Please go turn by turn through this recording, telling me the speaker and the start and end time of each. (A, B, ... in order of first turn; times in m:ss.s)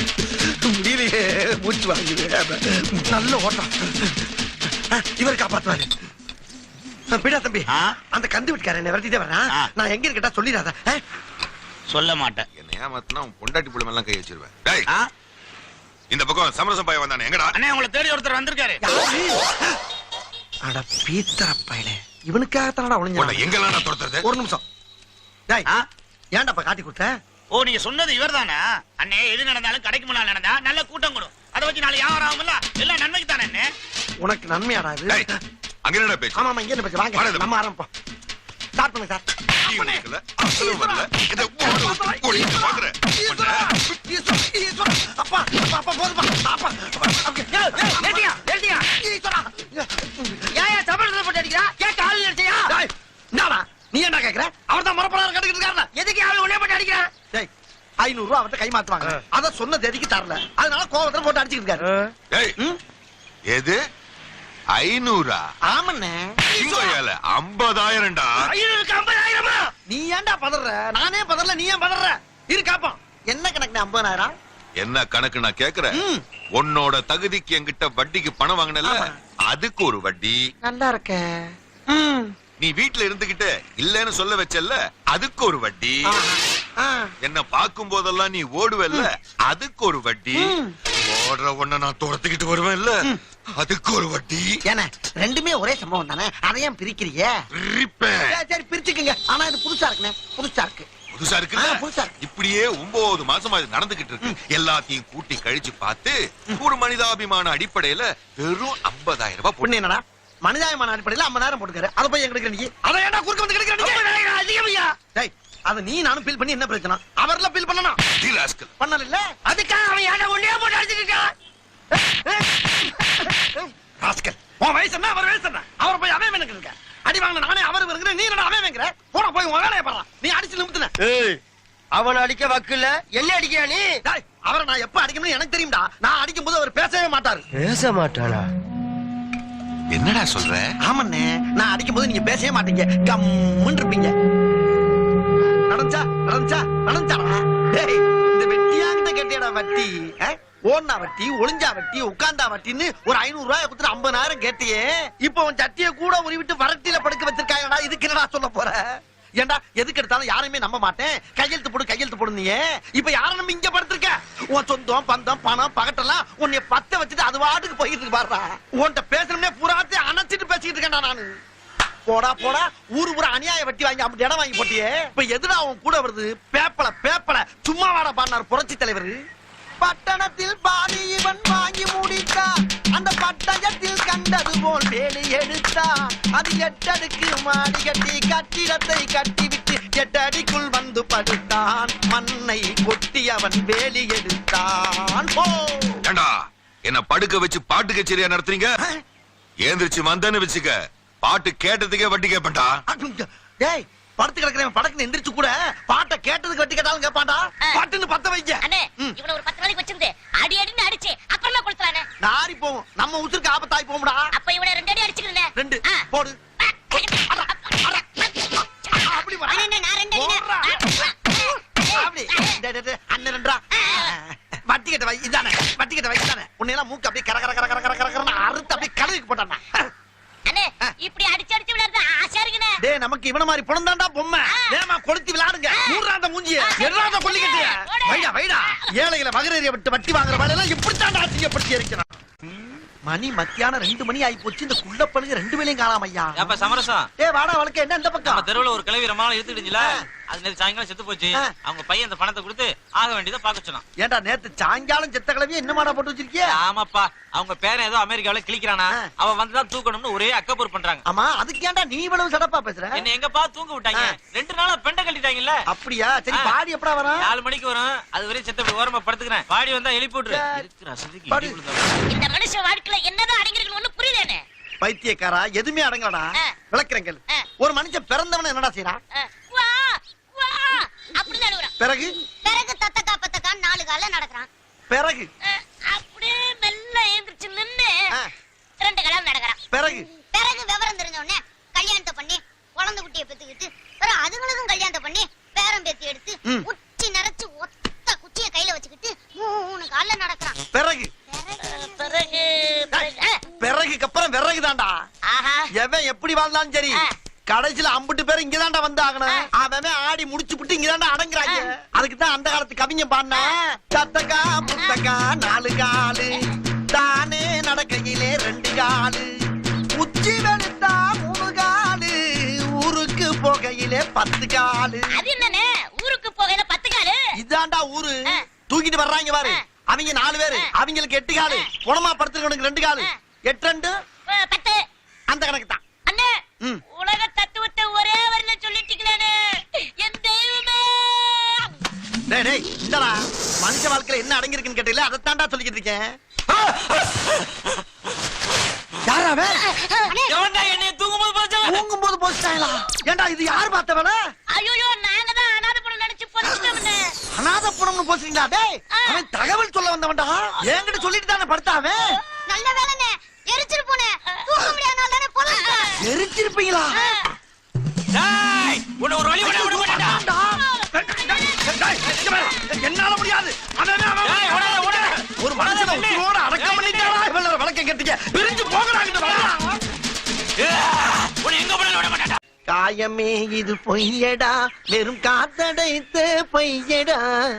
0:00.6-0:04.2 A
0:04.9-0:05.9 A
0:07.1-0:11.0 A
0:11.9-0:12.4 B
0:12.6-0:14.9 C
0:16.1-0:17.6 C
0:17.5-0:18.8 B
0:18.8-0:19.4 A
0:20.7-0:23.5 A
0:23.2-0:24.2 C
0:24.2-0:24.6 A
0:26.4-0:27.1 A
0:27.5-0:33.7 B
0:34.2-0:35.3 A
0:35.9-0:36.5 C
0:36.4-0:37.9 A
0:37.2-0:37.5 C
0:38.8-0:48.4 A
0:39.6-0:43.7 C
0:48.0-0:48.8 D
0:49.0-0:50.5 A
0:50.6-0:52.5 D
0:52.7-0:55.9 A
0:56.0-0:57.0 D
0:58.0-1:01.8 A
1:03.5-1:03.8 C
1:04.8-1:05.4 C
1:05.7-1:06.9 A
1:06.5-1:08.5 C
1:08.6-1:09.6 D
1:09.9-1:14.3 A
1:14.8-1:16.0 C
1:15.9-1:16.2 A
1:16.6-1:20.4 C
1:18.8-1:19.1 A
1:20.6-1:21.3 A
1:21.9-1:22.3 A
1:22.6-1:26.1 C
1:26.1-1:27.1 A
1:27.2-1:33.0 C
1:30.3-1:30.8 A
1:33.6-1:34.6 C
1:34.7-1:37.3 A
1:37.6-1:38.3 C
1:38.3-1:40.9 A
1:41.1-1:49.8 C
1:41.6-1:42.1 A
1:49.6-1:54.0 A
1:53.8-1:54.9 D
1:55.1-1:58.0 A
1:58.2-1:58.7 C
1:58.8-1:59.4 A
1:59.5-2:01.3 D
2:01.9-2:10.9 A
2:11.0-2:11.4 D
2:12.0-2:13.8 D
2:14.0-2:17.4 A
2:17.6-2:18.4 D
2:19.9-2:20.7 C
2:20.9-2:24.1 A
2:25.7-2:38.8 A
2:39.4-2:51.3 A
2:52.1-2:59.2 A
2:59.8-3:16.0 A
3:16.1-3:16.3 C
3:16.9-3:18.7 C
3:19.6-3:22.7 C
3:22.9-3:29.2 A
3:28.6-3:32.0 E
3:32.2-3:34.2 A
3:34.4-3:36.0 E
3:35.6-3:36.4 A
3:36.6-3:39.1 E
3:37.3-3:38.0 A
3:38.9-3:40.8 A
3:39.5-3:40.4 F
3:40.6-3:42.6 E
3:41.9-3:49.9 A
3:43.8-3:44.1 E
3:50.5-3:52.8 E
3:52.8-4:02.1 A
3:56.6-3:58.8 E
4:03.1-4:06.6 A
4:06.4-4:07.1 G
4:07.2-4:08.5 A
4:08.3-4:13.8 G
4:14.0-4:16.6 A
4:16.5-4:21.0 G
4:21.1-4:23.0 A
4:23.0-4:25.6 G
4:25.7-4:27.3 A
4:27.2-4:32.0 G
4:30.3-4:30.7 A
4:31.3-4:31.6 A
4:32.1-4:34.4 E
4:34.8-4:39.0 A
4:39.2-4:41.7 E
4:41.8-4:42.1 A
4:42.4-4:44.5 F
4:44.9-4:45.3 A
4:45.4-4:48.0 E
4:48.8-4:49.6 E
4:49.7-4:50.1 A
4:50.1-5:00.6 F
5:00.7-5:01.1 A
5:01.3-5:01.6 F
5:01.6-5:03.4 E
5:03.6-5:05.0 A
5:05.3-5:05.7 E
5:05.8-5:16.4 A
5:14.7-5:15.0 E
5:16.9-5:19.3 A
5:20.0-5:22.2 A
5:22.8-5:25.1 A
5:25.1-5:27.2 E
5:27.4-5:28.2 A
5:28.7-5:33.9 A
5:34.3-5:34.8 E
5:35.3-5:35.8 A
5:36.1-5:36.4 E
5:36.9-5:41.8 E
5:42.3-5:46.1 A
5:49.1-5:49.6 A
5:49.7-5:50.1 E
5:50.3-5:51.8 G
5:51.6-5:54.2 A
5:54.5-5:57.0 E
5:57.4-6:02.0 A
5:58.9-5:59.2 E
6:02.5-6:05.9 F
6:05.5-6:05.9 E
6:06.0-6:07.0 A
6:08.2-6:10.2 G
6:09.4-6:19.8 A
6:14.2-6:17.2 G
6:21.4-6:22.3 B
6:21.8-6:22.0 G
6:22.7-6:27.3 A